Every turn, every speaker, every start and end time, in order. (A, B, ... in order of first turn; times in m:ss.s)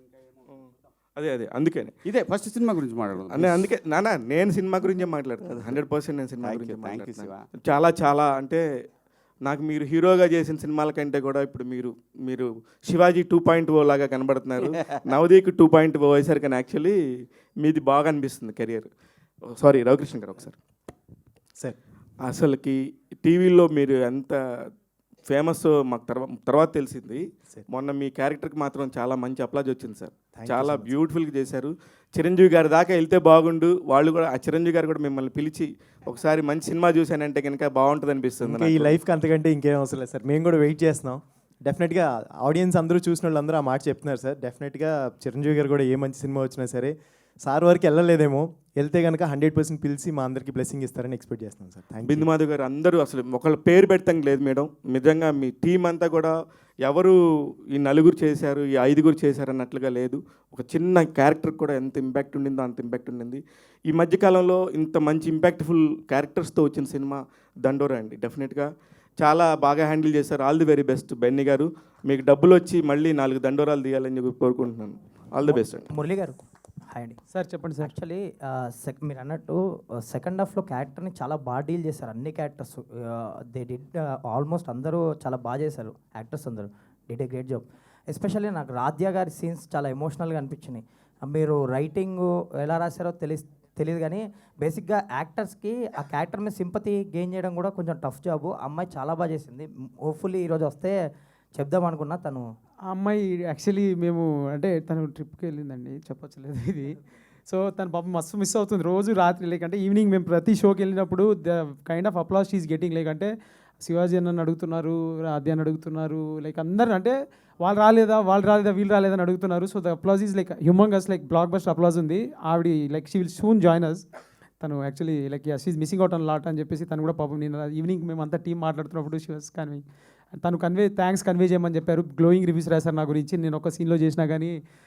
0:00.5-0:02.0 A
0:02.0-0:03.7 B
0:03.3-0:08.6 A
0:05.5-0:05.8 B
0:06.4-0:07.5 B
0:09.4-0:17.0 A
0:17.6-0:18.9 A
0:19.5-0:20.6 A
0:22.2-0:24.4 A
0:25.3-0:38.9 A
0:30.3-0:30.9 C
0:38.4-0:52.3 C
0:52.0-0:57.2 A
0:57.7-1:15.9 A
1:15.4-1:17.2 D
1:17.3-1:17.9 E
1:17.8-1:41.0 D
1:41.5-1:42.4 D
1:42.9-1:53.3 E
1:53.8-2:04.0 E
2:04.6-2:09.8 E
2:10.3-2:14.5 E